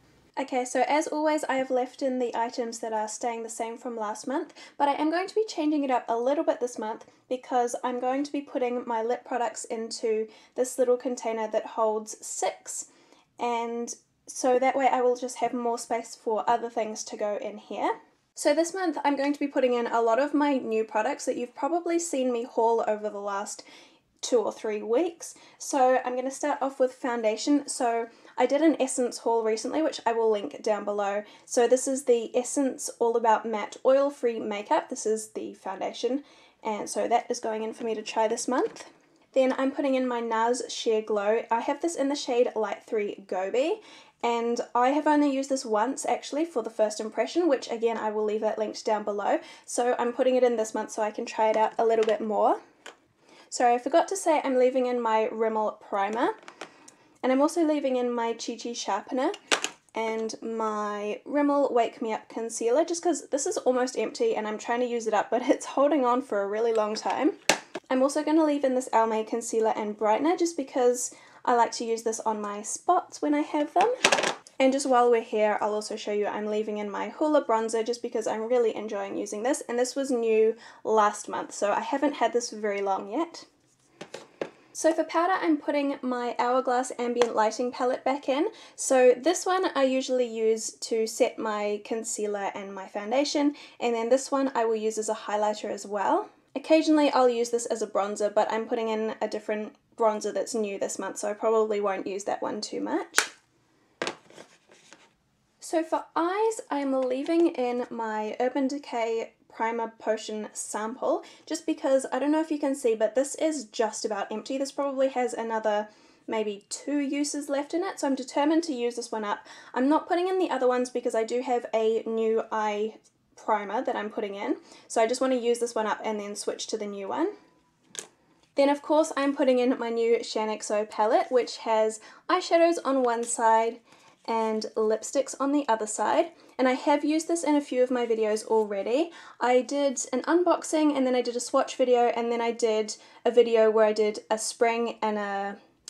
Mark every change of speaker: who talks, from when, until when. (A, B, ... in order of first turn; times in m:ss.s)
0:00.4-0:12.9 A
0:13.4-0:23.6 A
0:24.2-0:52.6 A
0:53.5-0:56.3 A
0:57.2-0:59.4 A
0:59.9-1:07.4 A
1:07.9-1:13.9 A
1:14.6-1:23.5 A
1:24.7-1:43.3 A
1:45.6-2:07.3 A
2:08.6-2:25.6 A